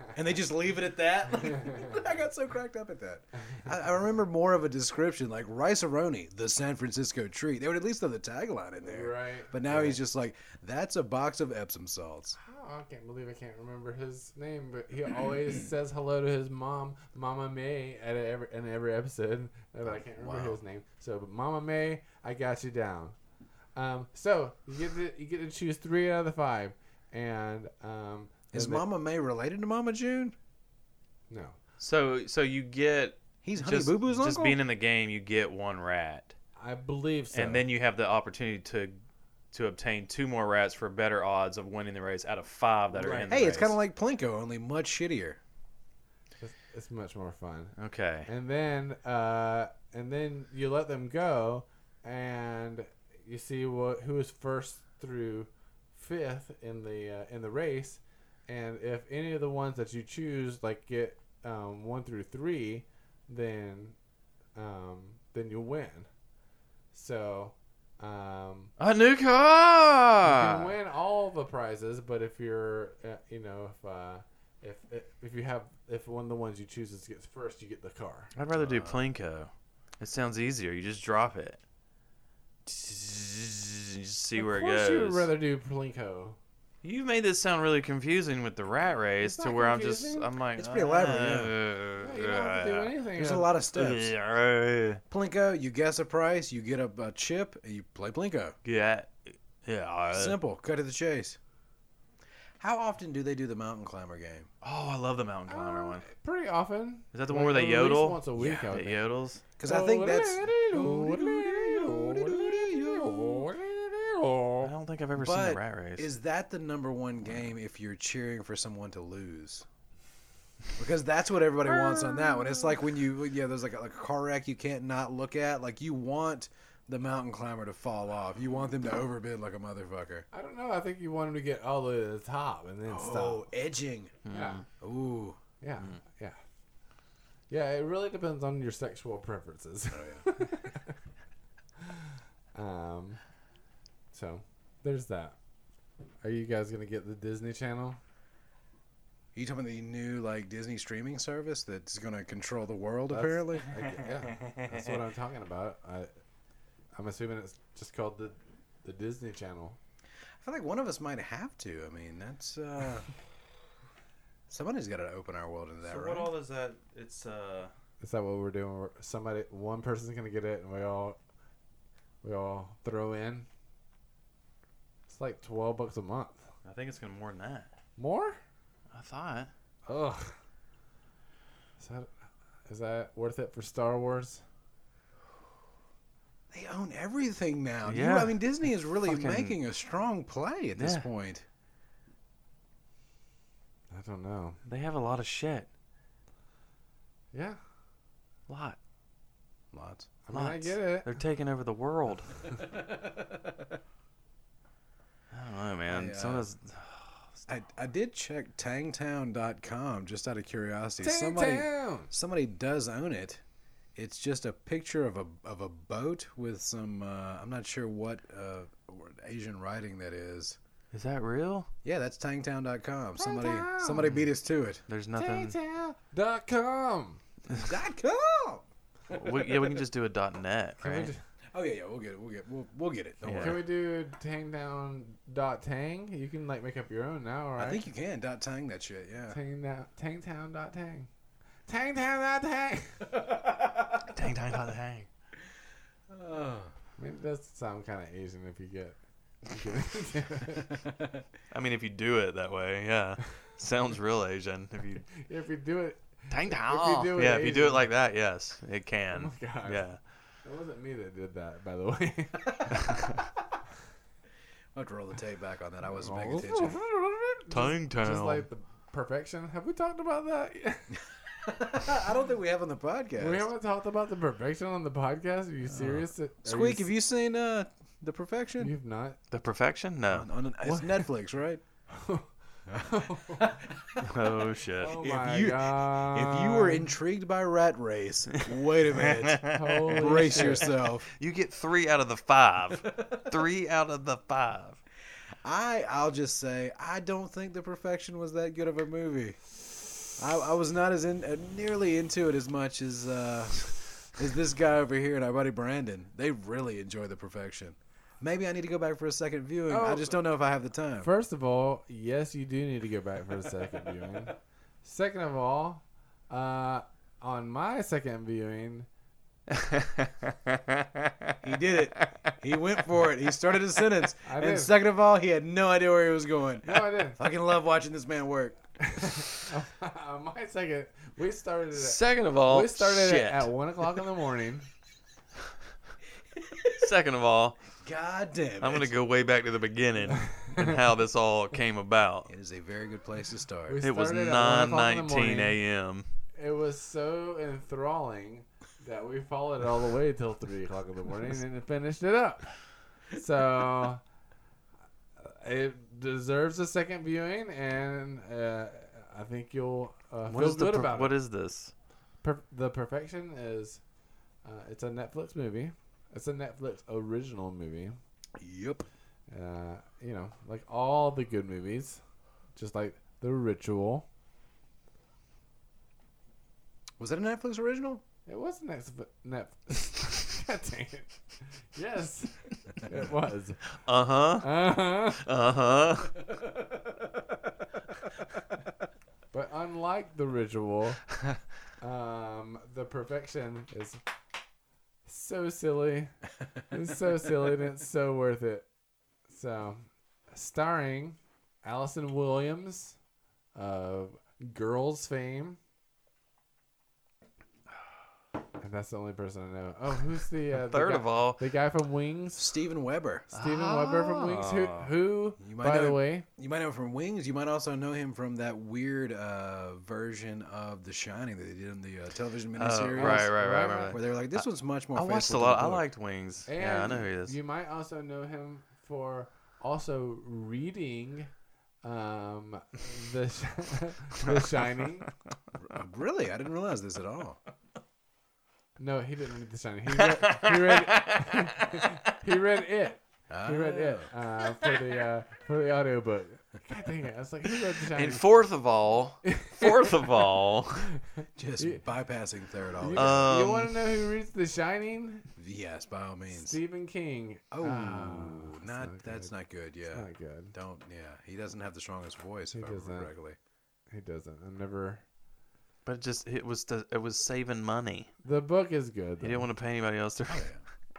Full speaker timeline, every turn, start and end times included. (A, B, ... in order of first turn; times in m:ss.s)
0:00.1-0:12.4 A
0:08.8-0:10.0 B
0:12.4-0:23.2 B
0:19.9-0:20.6 A
0:23.8-0:28.8 B
0:28.5-0:30.4 A
0:31.3-0:31.6 B
0:31.8-0:36.4 C
0:33.4-0:34.6 A
0:36.6-0:37.7 B
0:37.3-0:39.0 C
0:39.5-0:43.8 C
0:43.0-0:43.4 B
0:43.3-0:45.4 A
0:46.4-0:47.8 B
0:47.8-0:48.3 C
0:48.3-1:04.0 B
1:04.6-1:06.1 B
1:06.9-1:08.7 B
1:08.8-1:10.7 C
1:10.2-1:18.3 B
1:18.4-1:21.6 C
1:18.5-1:19.0 A
1:22.7-1:25.3 C
1:24.4-1:26.4 B
1:26.8-1:32.9 C
1:29.2-1:30.3 B
1:30.6-1:31.5 A
1:32.0-1:33.5 B
1:33.2-1:34.1 A
1:33.7-1:35.0 C
1:35.1-1:38.6 A
1:38.6-1:40.4 C
1:40.1-1:41.4 A
1:42.6-1:44.5 A
1:44.6-1:46.1 C
1:45.5-1:49.0 B
1:47.1-1:49.4 C
1:48.4-1:48.7 A
1:49.6-1:53.5 A
1:49.6-1:54.7 B
1:54.6-1:56.1 C
1:55.2-1:59.6 A
2:00.8-2:10.3 A
2:02.1-2:02.5 B
2:10.3-2:13.5 B
2:12.9-2:14.2 A
2:14.2-2:14.6 C
2:14.3-2:14.6 B
2:14.7-2:15.4 A
2:15.6-2:16.4 B
2:17.5-2:21.0 B
2:19.9-2:20.3 A
2:21.9-2:23.2 B
2:24.1-2:25.4 B
2:26.2-2:28.0 B
2:29.4-2:33.8 A
2:33.1-2:36.1 B
2:34.4-2:34.9 C
2:37.0-2:39.8 B
2:40.4-2:43.1 A
2:44.5-2:46.3 A
2:45.8-2:47.7 C
2:48.0-2:51.2 B
2:52.2-2:53.5 B
2:55.1-2:56.4 B
2:56.6-2:57.7 C
2:58.0-2:58.4 B
2:58.9-2:59.5 C
2:59.9-3:00.3 B
3:01.8-3:02.1 B
3:02.7-3:04.4 B
3:06.5-3:11.4 A
3:07.8-3:08.4 C
3:08.9-3:09.6 C
3:10.8-3:11.1 C
3:13.9-3:14.6 B
3:14.6-3:15.7 C
3:17.3-3:17.6 B
3:18.5-3:18.8 C
3:19.7-3:20.1 A
3:20.3-3:21.2 B
3:20.3-3:22.4 C
3:22.6-3:23.7 A
3:25.3-3:27.4 C
3:25.9-3:26.5 A
3:27.5-3:33.4 A
3:31.0-3:32.1 B
3:34.0-3:40.6 A
3:40.9-3:41.7 C
3:41.8-3:44.8 A
3:43.2-3:44.1 B
3:44.0-3:44.2 C
3:44.9-3:45.6 C
3:45.2-3:47.2 B
3:47.5-3:48.6 A
3:49.1-3:51.1 C
3:49.2-3:49.7 A
3:50.8-3:51.2 B
3:51.5-3:53.6 A
3:53.2-3:53.6 C
3:53.4-3:57.8 B
3:57.6-3:59.4 A
3:59.3-4:01.1 B
4:01.7-4:03.1 B
4:03.3-4:04.0 A
4:04.1-4:05.1 C
4:06.1-4:06.7 A
4:07.0-4:10.7 B
4:10.9-4:11.2 A
4:11.5-4:15.1 C
4:15.2-4:17.9 B
4:16.3-4:20.0 C
4:19.1-4:19.9 B
4:20.4-4:22.9 B
4:24.7-4:26.8 A
4:25.9-4:31.0 B
4:27.5-4:28.5 C
4:31.5-4:33.5 A
4:33.2-4:36.9 B
4:36.4-4:38.7 A
4:38.6-4:39.2 B
4:39.3-4:40.3 C
4:40.1-4:41.6 A
4:40.6-4:41.0 B
4:41.9-4:43.7 B
4:42.7-4:44.1 A
4:44.0-4:44.9 C
4:44.8-4:46.9 B
4:45.0-4:51.1 A
4:48.9-4:54.8 C
4:49.5-4:50.7 B
4:55.4-4:59.5 A
5:00.1-5:11.1 A
5:09.7-5:10.2 B
5:11.0-5:18.9 B
5:19.5-5:22.3 C
5:21.4-5:28.6 A
5:24.2-5:24.7 B
5:26.6-5:27.2 B
5:28.8-5:34.7 B
5:31.7-5:33.5 C
5:36.7-5:37.6 C
5:37.8-5:38.9 A
5:38.6-5:42.3 C
5:42.3-5:43.8 A
5:43.7-5:45.6 B
5:43.8-5:46.1 C
5:46.4-5:52.5 B
5:53.1-5:54.0 B
5:55.2-6:01.1 B
6:00.3-6:01.7 C
6:02.2-6:03.8 B
6:04.4-6:08.0 B
6:08.4-6:08.9 A
6:09.3-6:12.0 B
6:12.6-6:14.1 B
6:17.0-6:18.0 A
6:18.3-6:21.1 B
6:21.7-6:23.7 B
6:23.8-6:26.2 C
6:24.4-6:25.2 B
6:29.3-6:31.0 B
6:31.8-6:34.0 B
6:35.0-6:36.2 B
6:36.7-6:38.7 B
6:39.3-6:43.0 B
6:43.6-6:45.6 B
6:48.6-6:52.5 B
6:50.5-6:51.4 C
6:52.4-6:53.3 A
6:53.3-6:56.3 B
6:53.3-6:54.9 C
6:55.4-7:03.4 A
7:02.6-7:07.4 C
7:02.9-7:04.0 B
7:03.9-7:05.9 A
7:06.5-7:11.3 B
7:11.8-7:15.1 B
7:15.6-7:17.4 A
7:18.8-7:28.3 B
7:20.0-7:21.9 C
7:23.3-7:24.1 A
7:27.9-7:30.9 C
7:29.2-7:30.0 B
7:31.4-7:33.4 A
7:32.8-7:35.3 B
7:33.0-7:34.0 C
7:35.4-7:36.6 A
7:36.3-7:39.3 B
7:37.5-7:43.4 A
7:39.9-7:40.6 B
7:42.5-7:43.1 B
7:43.9-7:45.0 B
7:45.9-7:48.1 C
7:48.2-7:49.5 B
7:49.2-7:50.6 C
7:50.3-7:50.6 A